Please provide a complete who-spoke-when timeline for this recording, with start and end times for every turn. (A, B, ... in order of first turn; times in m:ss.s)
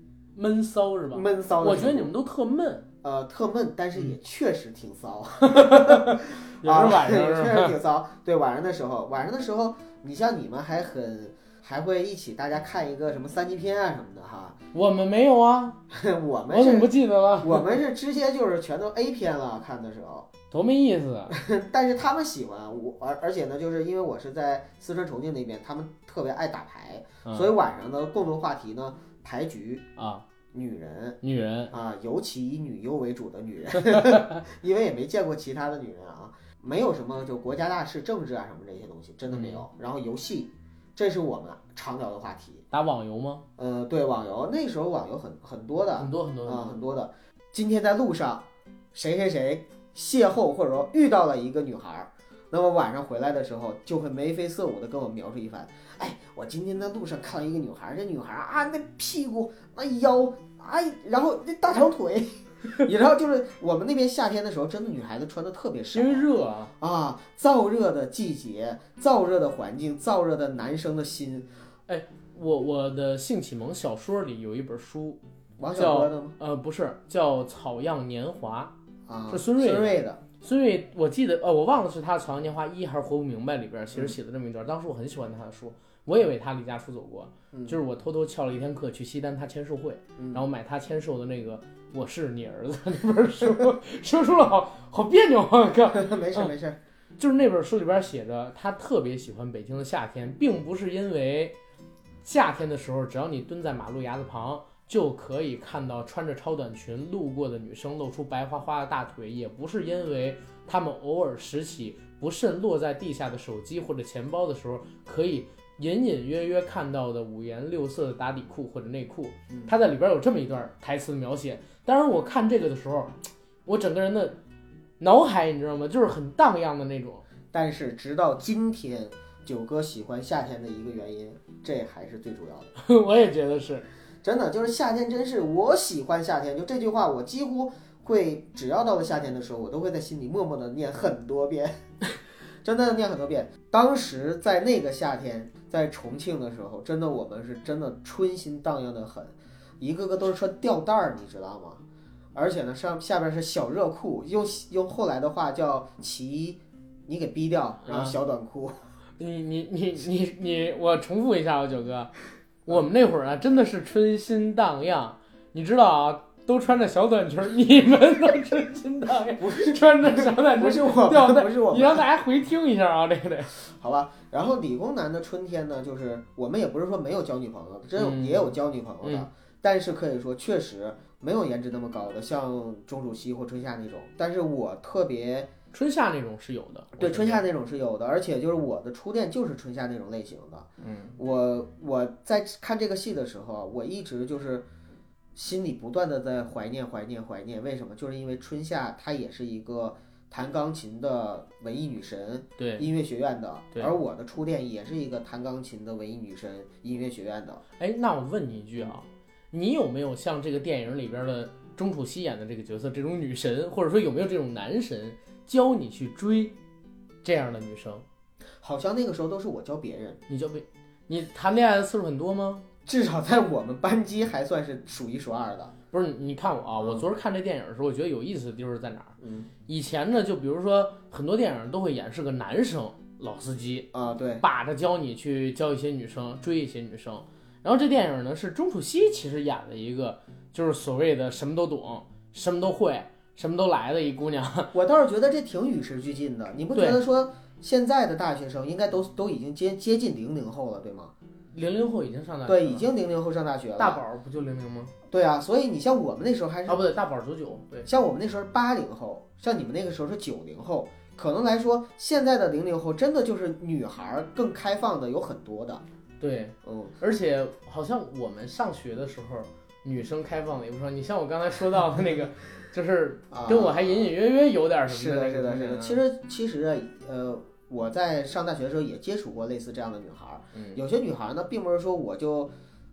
0:00.4-0:02.9 A
0:01.1-0:02.1 B
0:03.0-0:14.6 B
0:05.4-0:07.8 A
0:14.7-0:15.8 A
0:15.9-0:20.3 B
0:16.5-0:17.8 A
0:20.5-0:21.4 A
0:21.3-0:29.9 B
0:27.2-0:27.5 A
0:30.0-0:30.2 A
0:30.5-0:31.2 B
0:31.2-0:31.7 A
0:31.7-0:42.6 B
0:33.8-0:34.4 A
0:39.3-0:39.6 A
0:42.7-0:43.4 A
0:43.6-1:06.3 B
0:46.0-0:46.8 A
1:05.9-1:06.7 A
1:06.8-1:11.5 B
1:11.9-1:15.2 A
1:15.6-1:16.4 B
1:15.8-1:18.7 A
1:19.1-1:20.2 B
1:19.3-1:36.5 A
1:27.5-1:27.8 B
1:30.2-1:30.4 B
1:35.9-1:36.8 B
1:37.2-1:41.6 A
1:42.2-2:03.2 A
2:03.7-2:04.4 A
2:05.0-2:07.2 A
2:07.5-2:12.7 B
2:12.8-2:13.9 A
2:14.2-2:21.8 B
2:22.6-2:31.8 B
2:32.4-2:38.8 B
2:37.9-2:38.2 A
2:39.2-2:42.1 A
2:42.7-2:53.6 A
2:49.4-2:52.0 B
2:53.5-3:05.5 B
2:58.0-2:59.3 A
3:05.7-3:07.4 A
3:07.0-3:14.7 B
3:10.8-3:11.1 A
3:15.4-3:27.6 B
3:22.6-3:22.9 A
3:27.8-3:36.6 A
3:37.2-3:38.1 A
3:38.6-3:40.2 B
3:40.3-3:42.7 A
3:42.9-3:45.7 B
3:45.9-3:53.9 A
3:49.2-3:49.5 B
3:53.9-3:54.4 B
3:54.4-4:04.7 A
4:04.7-4:11.1 B
4:06.8-4:07.0 A
4:11.5-4:12.9 A
4:12.5-4:14.0 B
4:13.8-4:14.9 A
4:15.1-4:16.8 B
4:16.7-4:17.9 A
4:17.8-4:25.8 B
4:26.2-4:36.0 A
4:26.6-4:27.0 B
4:33.3-4:34.1 B
4:34.9-4:42.5 B
4:40.6-4:40.8 A